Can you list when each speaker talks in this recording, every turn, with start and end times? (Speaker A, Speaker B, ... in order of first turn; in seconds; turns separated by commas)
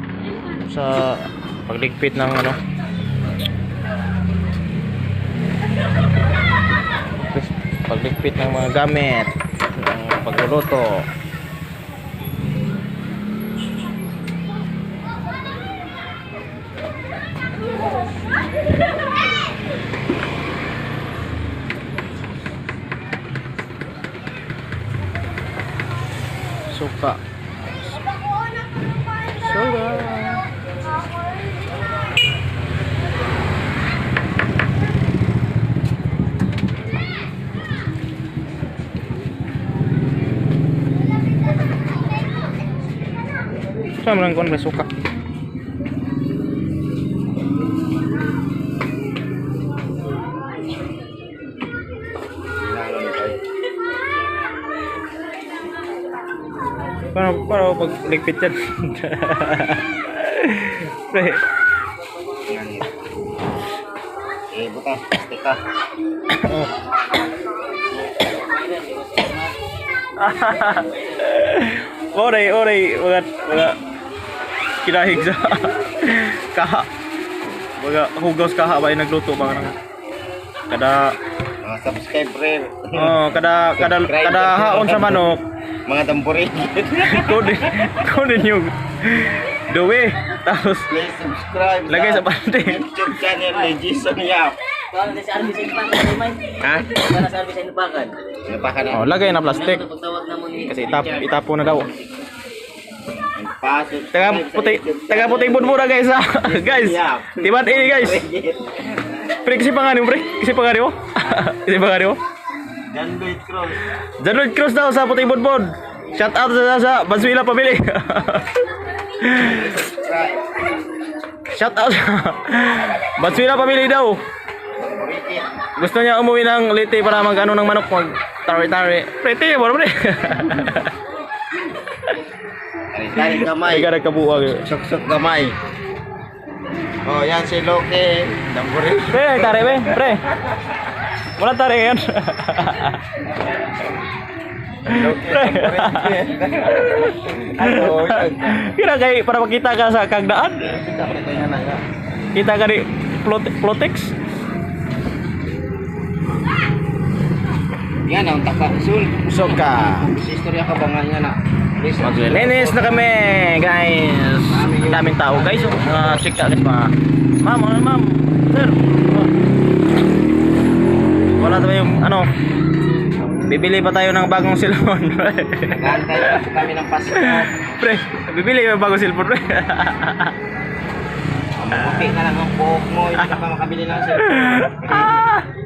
Speaker A: 0.6-2.6, Speaker A: 7.2-11.1, Speaker A: 26.7-27.2, Speaker A: 29.4-30.4, Speaker A: 44.0-44.9, Speaker B: 52.6-53.4, Speaker A: 57.1-61.4, Speaker B: 62.5-63.0, Speaker B: 64.5-65.6, Speaker A: 66.3-66.7, Speaker C: 68.2-69.5, Speaker A: 70.2-73.8, Speaker A: 74.8-76.9, Speaker A: 77.8-79.8, Speaker A: 80.7-81.1, Speaker B: 81.6-83.2, Speaker A: 82.9-85.4, Speaker B: 83.8-85.3, Speaker B: 85.9-87.6, Speaker A: 87.0-90.9, Speaker B: 90.9-94.6, Speaker A: 91.9-93.0, Speaker C: 94.9-98.2, Speaker B: 96.6-97.1, Speaker B: 98.4-99.1, Speaker A: 98.9-99.9, Speaker C: 99.4-102.0, Speaker A: 100.6-101.9, Speaker B: 103.3-108.6, Speaker A: 104.1-108.2, Speaker A: 109.4-112.2, Speaker B: 112.9-113.8, Speaker A: 114.2-118.5, Speaker A: 119.2-119.7, Speaker B: 119.4-120.5, Speaker A: 121.5-124.2, Speaker B: 124.8-125.5, Speaker A: 125.8-130.9, Speaker B: 132.9-133.9, Speaker A: 133.2-134.7, Speaker B: 134.6-135.5, Speaker B: 137.0-140.1, Speaker A: 139.1-140.3, Speaker A: 141.4-143.0, Speaker B: 144.9-148.7, Speaker A: 144.9-150.8, Speaker B: 150.8-151.8, Speaker A: 152.3-154.1, Speaker B: 158.0-163.0, Speaker A: 159.2-160.1, Speaker A: 162.0-169.3, Speaker B: 164.5-166.2, Speaker A: 171.4-172.3, Speaker A: 173.4-176.5, Speaker B: 175.7-177.5, Speaker A: 177.1-180.3, Speaker B: 181.6-185.2, Speaker A: 184.2-185.4